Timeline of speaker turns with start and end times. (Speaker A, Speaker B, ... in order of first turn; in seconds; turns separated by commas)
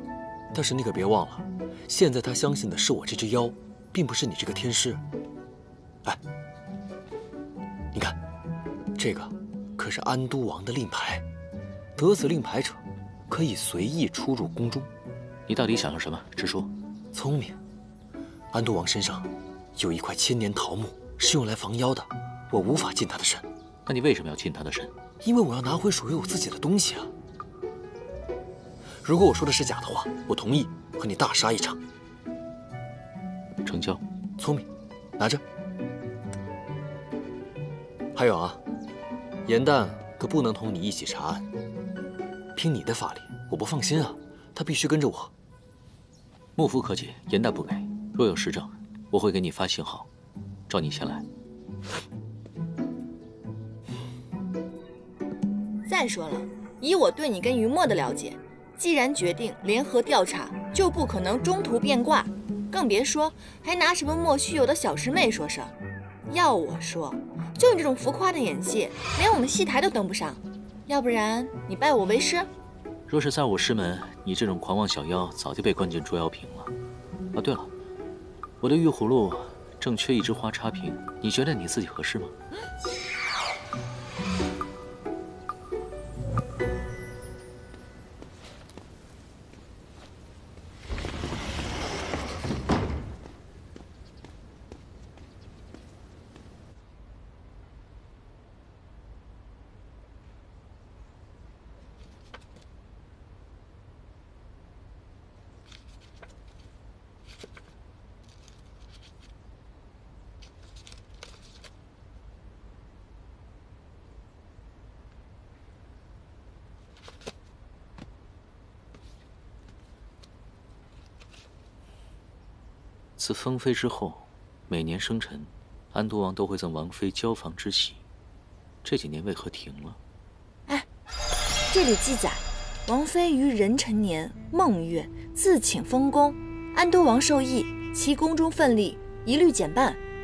Speaker A: 0.5-5.0, Speaker A: 8.9-11.2, Speaker A: 11.9-14.9, Speaker B: 15.5-16.7, Speaker A: 17.1-17.6, Speaker A: 18.5-23.4, Speaker B: 23.9-24.9, Speaker A: 25.2-27.1, Speaker A: 29.0-31.8, Speaker B: 33.6-34.0, Speaker A: 34.4-35.4, Speaker A: 38.1-38.6, Speaker A: 39.4-41.5, Speaker A: 42.5-45.3, Speaker B: 46.5-50.1, Speaker B: 50.7-51.2, Speaker C: 55.9-65.7, Speaker C: 66.3-72.5, Speaker B: 73.1-76.7, Speaker B: 77.3-77.7, Speaker B: 78.6-82.3, Speaker B: 123.2-128.0, Speaker B: 128.8-130.0, Speaker C: 131.7-140.0